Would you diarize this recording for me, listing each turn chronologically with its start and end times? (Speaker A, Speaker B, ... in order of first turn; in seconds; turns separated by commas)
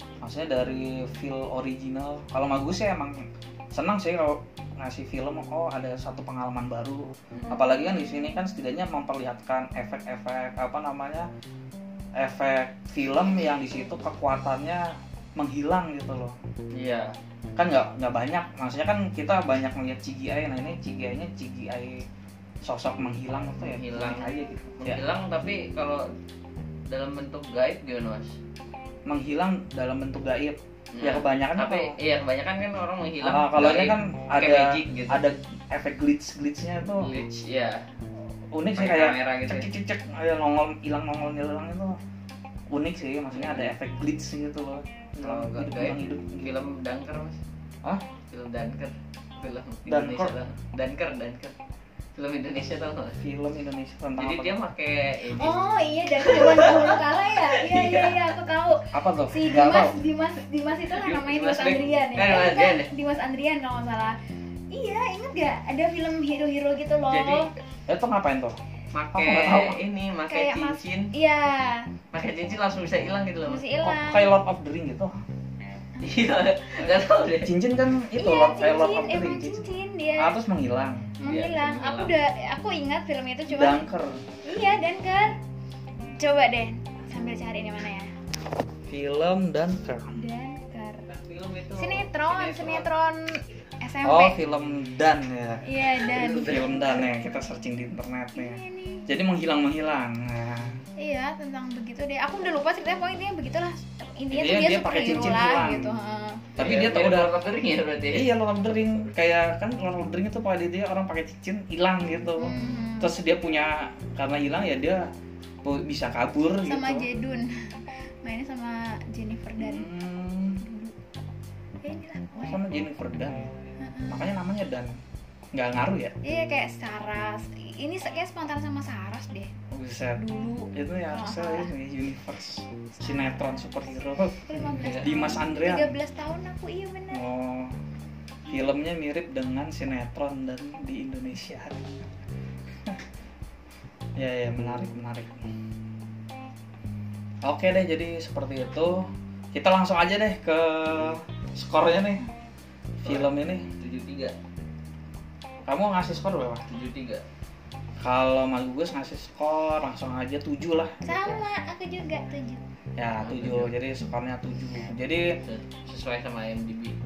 Speaker A: 0.2-3.2, Speaker A: 3.7-11.3, Speaker A: 12.2-16.4, Speaker B: 16.7-17.1, Speaker A: 17.6-22.1, Speaker A: 22.6-25.0, Speaker B: 23.6-26.1, Speaker B: 26.9-28.4, Speaker A: 29.1-32.0, Speaker B: 30.9-35.2, Speaker A: 33.2-37.2, Speaker B: 36.9-37.8, Speaker A: 38.4-42.0, Speaker B: 38.8-39.7, Speaker A: 42.7-46.5, Speaker B: 43.3-43.7, Speaker B: 45.2-47.4, Speaker B: 48.3-51.6, Speaker A: 49.9-50.3, Speaker B: 52.1-53.2, Speaker A: 53.2-54.6, Speaker B: 54.2-55.6, Speaker C: 55.4-64.2, Speaker B: 56.2-58.3, Speaker A: 58.9-60.0, Speaker B: 60.9-62.9, Speaker C: 64.7-67.5, Speaker B: 67.1-67.5, Speaker A: 67.9-68.6, Speaker B: 68.9-71.1, Speaker A: 69.1-69.8, Speaker C: 70.3-71.9, Speaker B: 72.1-73.6, Speaker C: 73.5-74.3, Speaker A: 73.8-75.2, Speaker B: 76.0-77.5, Speaker A: 77.4-79.6, Speaker C: 78.2-80.3, Speaker A: 80.2-81.1, Speaker C: 81.2-83.8, Speaker B: 81.2-82.1, Speaker A: 83.5-84.2, Speaker C: 84.4-85.4, Speaker C: 86.2-88.2, Speaker A: 88.9-90.2, Speaker C: 90.2-91.1, Speaker B: 91.1-92.9, Speaker C: 91.8-94.4, Speaker A: 94.0-95.7, Speaker C: 95.6-96.8, Speaker B: 96.0-97.1, Speaker A: 96.3-100.8, Speaker C: 98.3-99.1, Speaker C: 101.0-106.5, Speaker A: 104.3-106.0, Speaker A: 106.6-107.3, Speaker B: 106.6-109.1, Speaker A: 108.1-115.1, Speaker C: 112.4-113.1, Speaker A: 115.6-117.1, Speaker C: 116.7-119.9, Speaker A: 119.6-120.6, Speaker C: 120.6-121.0, Speaker C: 121.8-122.6, Speaker A: 122.4-123.5, Speaker C: 123.8-124.3, Speaker A: 124.1-125.0, Speaker A: 125.5-126.2, Speaker C: 126.2-129.5, Speaker A: 129.7-130.2, Speaker C: 130.2-131.7, Speaker A: 130.7-135.9, Speaker C: 132.9-137.3, Speaker B: 134.8-135.1, Speaker A: 137.1-137.8, Speaker A: 138.5-141.8, Speaker A: 144.2-145.4, Speaker A: 147.4-152.2, Speaker B: 153.0-154.3, Speaker A: 153.0-153.7, Speaker A: 155.7-156.7, Speaker B: 156.7-157.2, Speaker A: 158.0-161.3, Speaker C: 161.0-162.6, Speaker A: 163.0-165.4, Speaker B: 163.2-163.7, Speaker B: 165.4-166.9